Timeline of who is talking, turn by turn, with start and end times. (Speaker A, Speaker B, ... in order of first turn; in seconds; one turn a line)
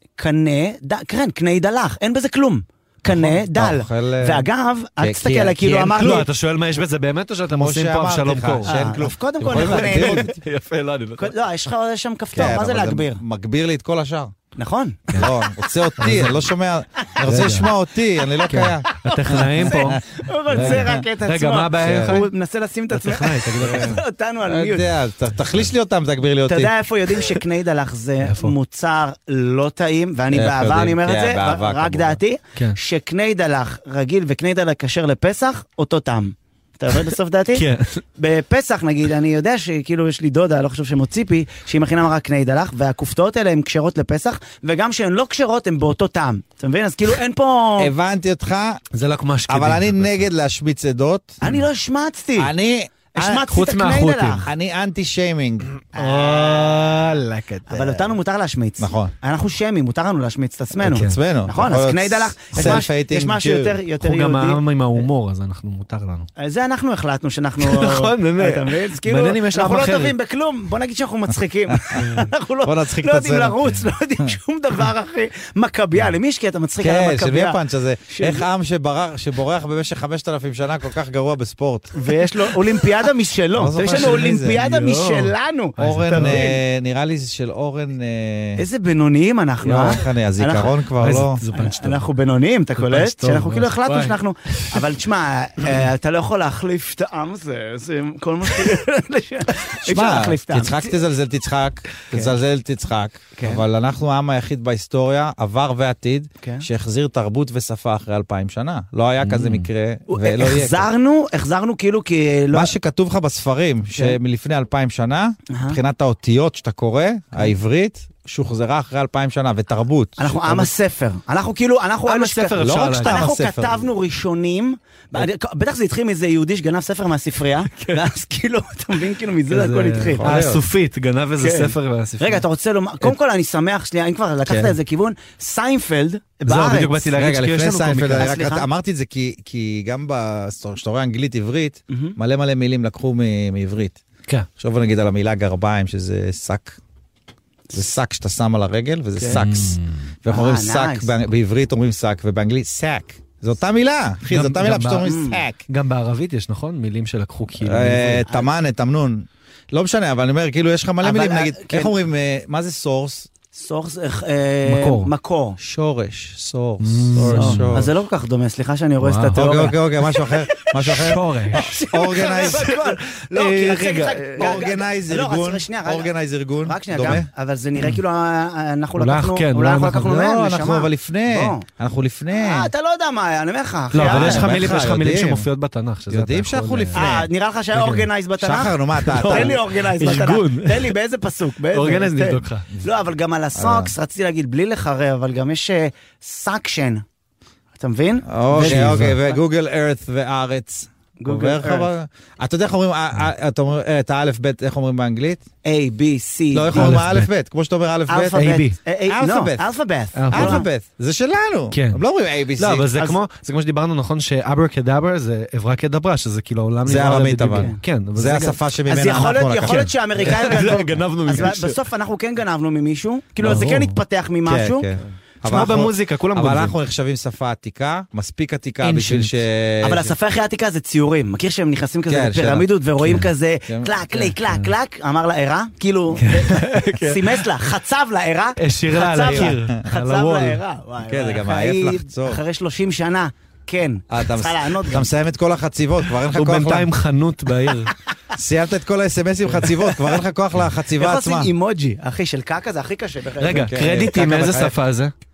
Speaker A: 0.2-6.3
Speaker B: 3.0-6.2
Speaker C: 6.0-11.4
Speaker B: 7.5-10.3
Speaker A: 8.7-10.3
Speaker A: 11.2-13.2
Speaker B: 12.3-14.3
Speaker A: 14.6-15.2
Speaker B: 15.2-18.9
Speaker C: 16.0-16.3
Speaker A: 17.1-17.5
Speaker C: 17.2-17.7
Speaker C: 18.5-22.3
Speaker A: 18.6-24.9
Speaker B: 19.7-20.0
Speaker B: 20.5-20.9
Speaker B: 21.8-22.2
Speaker C: 22.9-24.0
Speaker B: 23.6-26.7
Speaker A: 26.5-37.6
Speaker C: 28.2-28.6
Speaker B: 30.3-32.2
Speaker C: 37.5-38.0
Speaker A: 38.2-47.9
Speaker B: 47.8-48.8
Speaker C: 48.9-50.3
Speaker B: 49.5-51.4
Speaker A: 51.4-52.5
Speaker B: 52.4-53.5
Speaker A: 53.1-54.5
Speaker C: 53.5-54.5
Speaker B: 54.4-55.7
Speaker C: 55.9-57.7
Speaker A: 56.0-57.0
Speaker A: 57.7-65.0
Speaker B: 58.8-59.1
Speaker C: 60.8-61.2
Speaker B: 60.9-63.8
Speaker C: 62.5-62.9
Speaker C: 64.0-66.3
Speaker A: 66.4-78.5
Speaker C: 67.6-70.2
Speaker B: 71.7-72.0
Speaker C: 72.0-72.3
Speaker B: 72.6-73.6
Speaker B: 76.8-82.0
Speaker A: 82.0-86.6
Speaker B: 83.6-84.6
Speaker C: 83.9-86.4
Speaker B: 85.8-88.6
Speaker A: 88.6-90.7
Speaker B: 89.6-91.4
Speaker C: 91.0-92.1
Speaker A: 91.5-100.9
Speaker C: 92.8-94.9
Speaker B: 99.8-110.9
Speaker A: 103.4-103.6
Speaker C: 109.2-109.7
Speaker A: 110.1-112.7
Speaker B: 112.5-120.7
Speaker A: 115.5-115.8
Speaker A: 120.2-130.2
Speaker C: 122.1-123.2
Speaker B: 122.6-123.9
Speaker C: 129.5-132.4
Speaker B: 130.2-130.6
Speaker A: 131.4-137.0
Speaker B: 134.5-134.8
Speaker C: 136.5-138.3
Speaker B: 137.1-144.0
Speaker A: 138.1-138.7
Speaker A: 141.9-142.2
Speaker B: 144.6-146.8
Speaker B: 147.7-155.6
Speaker C: 149.3-150.0
Speaker A: 150.3-151.1
Speaker C: 154.3-155.1
Speaker A: 155.0-155.4
Speaker C: 155.7-158.2
Speaker B: 157.6-163.3
Speaker A: 161.0-161.9
Speaker A: 163.5-165.6
Speaker C: 164.7-165.1
Speaker B: 165.6-167.9
Speaker C: 166.8-167.7
Speaker A: 167.3-176.1
Speaker C: 169.0-169.5
Speaker B: 169.3-172.8
Speaker C: 170.9-171.7
Speaker C: 172.4-174.5
Speaker B: 174.3-177.3
Speaker A: 176.6-181.7
Speaker C: 179.0-180.1
Speaker B: 180.0-182.7
Speaker A: 182.3-184.6
Speaker C: 183.9-187.2
Speaker B: 184.0-185.5
Speaker B: 186.1-187.3
Speaker A: 186.9-197.0
Speaker C: 187.7-188.1
Speaker B: 188.4-189.6
Speaker C: 189.0-190.9
Speaker C: 191.7-192.7
Speaker B: 193.6-193.9
Speaker A: 197.8-199.4
Speaker B: 198.3-205.4
Speaker C: 198.6-199.2
Speaker A: 201.2-201.9
Speaker A: 205.7-207.0
Speaker B: 206.5-208.5
Speaker C: 206.8-207.3
Speaker A: 208.1-210.7
Speaker C: 208.4-208.8
Speaker B: 209.1-209.7
Speaker C: 210.2-210.6
Speaker B: 210.3-212.9
Speaker C: 211.7-212.0
Speaker C: 212.6-218.6
Speaker B: 216.9-219.9
Speaker A: 217.1-217.8
Speaker A: 218.9-224.9
Speaker C: 219.7-221.8
Speaker C: 223.4-224.0
Speaker B: 224.5-230.1
Speaker C: 225.1-226.8
Speaker C: 228.8-229.3
Speaker A: 229.8-245.1
Speaker B: 232.1-232.7
Speaker C: 233.0-233.3
Speaker B: 233.7-234.2
Speaker C: 234.4-234.7
Speaker C: 236.2-237.5
Speaker C: 238.6-240.6
Speaker B: 239.2-239.7
Speaker B: 241.0-242.4
Speaker B: 244.1-246.9
Speaker C: 246.3-247.9
Speaker B: 248.3-251.5
Speaker A: 251.0-253.7
Speaker C: 253.4-255.1
Speaker B: 253.6-254.8